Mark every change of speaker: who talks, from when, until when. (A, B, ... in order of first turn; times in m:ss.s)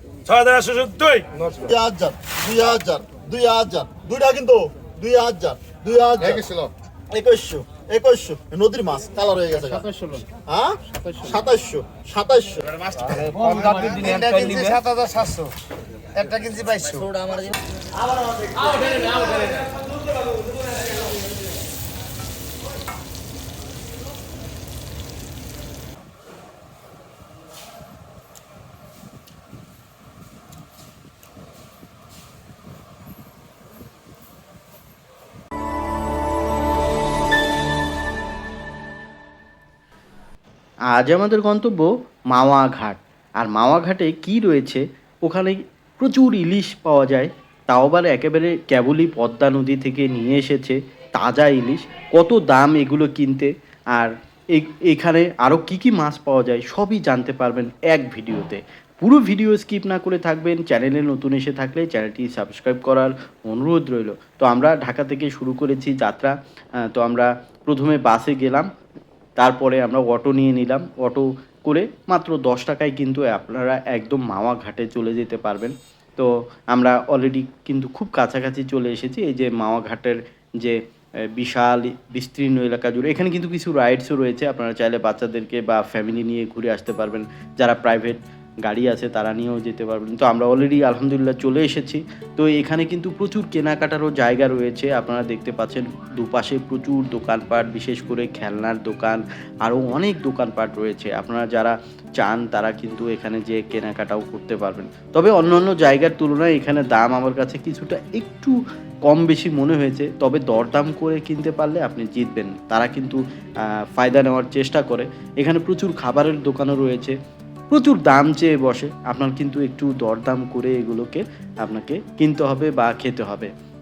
0:00.2-0:01.3 A
0:01.6-0:12.8 B
0:13.1-0:15.5 C
0:13.2-0:14.8 A
0:16.1-0:17.5 C
0:40.9-1:06.3 D
1:06.8-1:08.7 D
1:09.4-1:20.8 D
1:21.3-1:53.2 D
1:53.8-1:57.2 D
1:57.7-2:03.5 D